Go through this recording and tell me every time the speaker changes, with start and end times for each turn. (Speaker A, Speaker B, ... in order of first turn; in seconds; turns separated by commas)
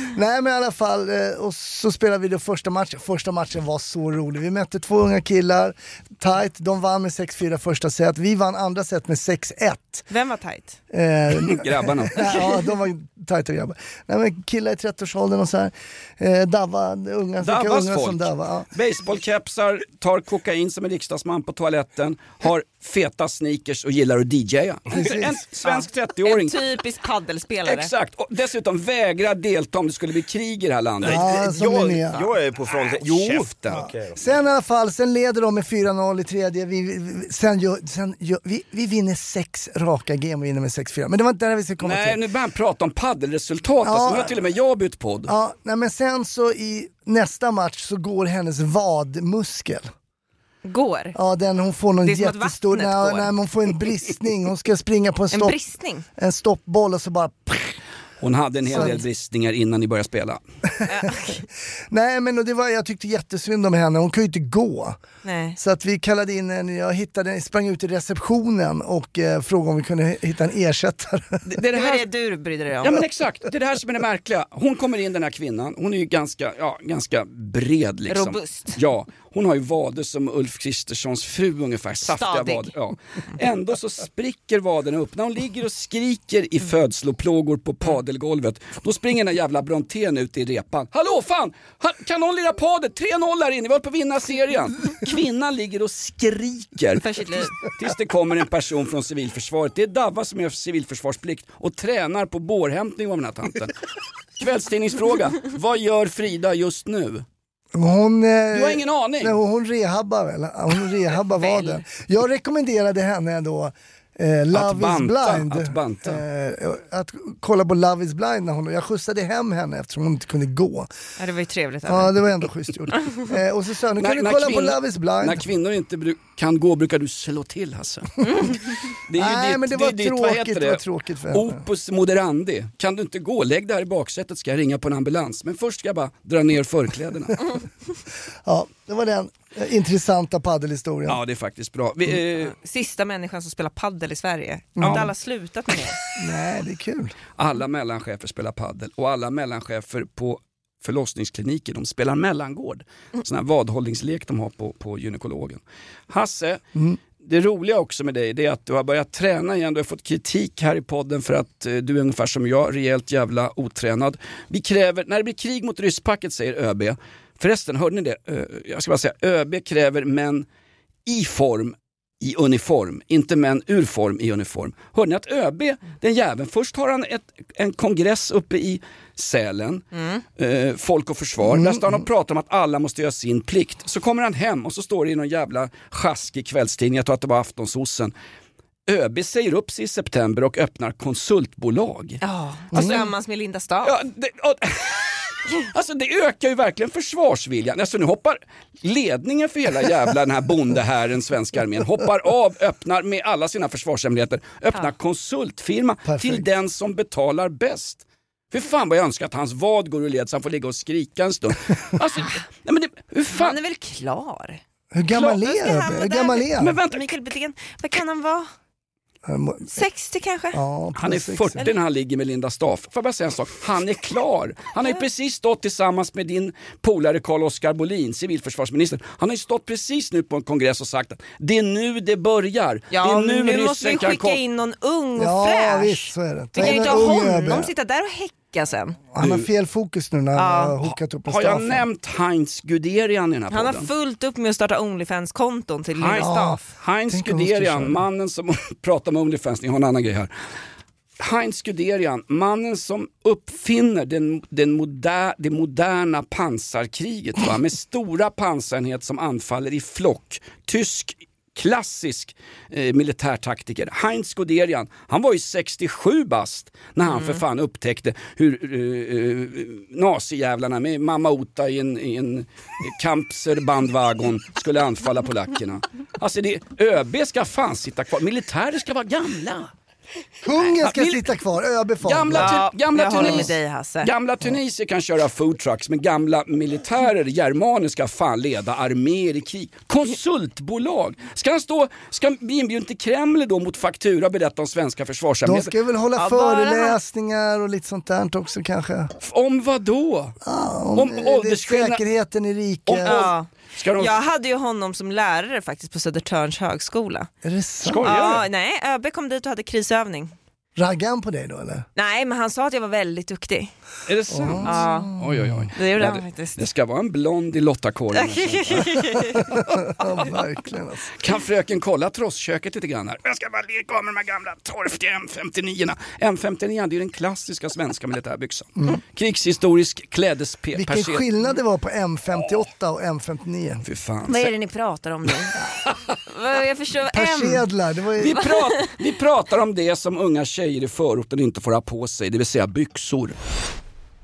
Speaker A: 0.1-10.1, Speaker B: 10.1-10.8, Speaker A: 10.9-18.7, Speaker C: 11.4-12.5, Speaker C: 17.4-26.6, Speaker A: 24.9-25.4, Speaker B: 25.6-27.9, Speaker C: 27.6-31.3, Speaker A: 31.0-32.3, Speaker D: 31.0-34.3, Speaker C: 32.6-33.9, Speaker A: 34.1-42.2, Speaker C: 41.8-45.3, Speaker A: 43.8-44.4, Speaker A: 45.3-49.9, Speaker B: 50.6-51.1, Speaker A: 51.1-55.6, Speaker B: 52.0-53.3, Speaker B: 55.3-56.0, Speaker A: 56.2-57.8, Speaker C: 58.2-60.4, Speaker A: 58.7-59.0, Speaker B: 60.9-61.4, Speaker A: 61.9-65.0, Speaker B: 65.2-65.6, Speaker A: 65.6-71.4, Speaker C: 71.5-72.0, Speaker B: 71.7-73.0, Speaker C: 72.8-103.7, Speaker B: 78.1-78.8, Speaker B: 82.1-82.7, Speaker B: 97.0-97.5, Speaker C: 104.4-107.2, Speaker A: 107.7-120.9, Speaker C: 108.5-109.4, Speaker B: 111.4-111.8, Speaker C: 114.5-116.2, Speaker B: 121.2-122.2, Speaker A: 121.9-125.4, Speaker C: 124.0-137.4, Speaker A: 129.1-131.6, Speaker A: 138.4-141.2, Speaker C: 141.1-142.5, Speaker B: 142.4-146.0, Speaker A: 144.8-145.1, Speaker C: 144.8-145.1, Speaker A: 146.2-147.1, Speaker C: 147.4-156.6, Speaker C: 157.2-170.4, Speaker C: 171.1-179.8, Speaker B: 179.9-180.2, Speaker C: 180.4-188.1, Speaker A: 181.4-182.0, Speaker C: 188.9-192.2, Speaker B: 192.2-193.9, Speaker C: 192.7-193.0, Speaker C: 193.8-213.6, Speaker A: 206.1-206.4, Speaker B: 213.3-214.6, Speaker A: 214.9-216.8, Speaker B: 215.1-218.5, Speaker C: 216.6-217.1, Speaker A: 219.2-219.8, Speaker B: 219.7-220.6, Speaker A: 220.5-221.6, Speaker C: 220.9-234.4, Speaker B: 232.9-239.0, Speaker A: 235.2-237.7, Speaker C: 236.6-236.9, Speaker A: 239.1-241.9, Speaker C: 239.2-239.5, Speaker B: 240.4-240.8, Speaker C: 241.3-243.9, Speaker B: 243.5-246.6, Speaker C: 246.0-250.3, Speaker A: 246.2-248.0, Speaker C: 251.2-279.7, Speaker B: 267.1-267.4, Speaker A: 280.4-282.6, Speaker C: 280.8-281.2, Speaker C: 282.0-295.7, Speaker B: 282.4-284.1, Speaker A: 283.1-283.5, Speaker A: 295.4-299.1, Speaker B: 296.1-297.0, Speaker C: 299.2-300.4, Speaker A: 300.4-303.3, Speaker C: 300.9-302.0, Speaker C: 302.9-304.1, Speaker B: 303.0-307.3, Speaker A: 307.4-308.1, Speaker C: 307.8-308.4, Speaker B: 308.0-310.3, Speaker A: 310.8-311.9, Speaker B: 311.9-313.7, Speaker C: 314.1-319.7, Speaker A: 314.3-315.7, Speaker B: 314.6-315.1, Speaker B: 315.7-316.6, Speaker B: 318.1-319.5, Speaker A: 319.4-321.1, Speaker C: 321.2-331.2, Speaker A: 330.8-333.8, Speaker C: 333.9-334.5, Speaker B: 334.3-335.6, Speaker B: 336.3-337.6, Speaker A: 337.1-338.4, Speaker C: 338.2-343.4, Speaker B: 338.3-338.9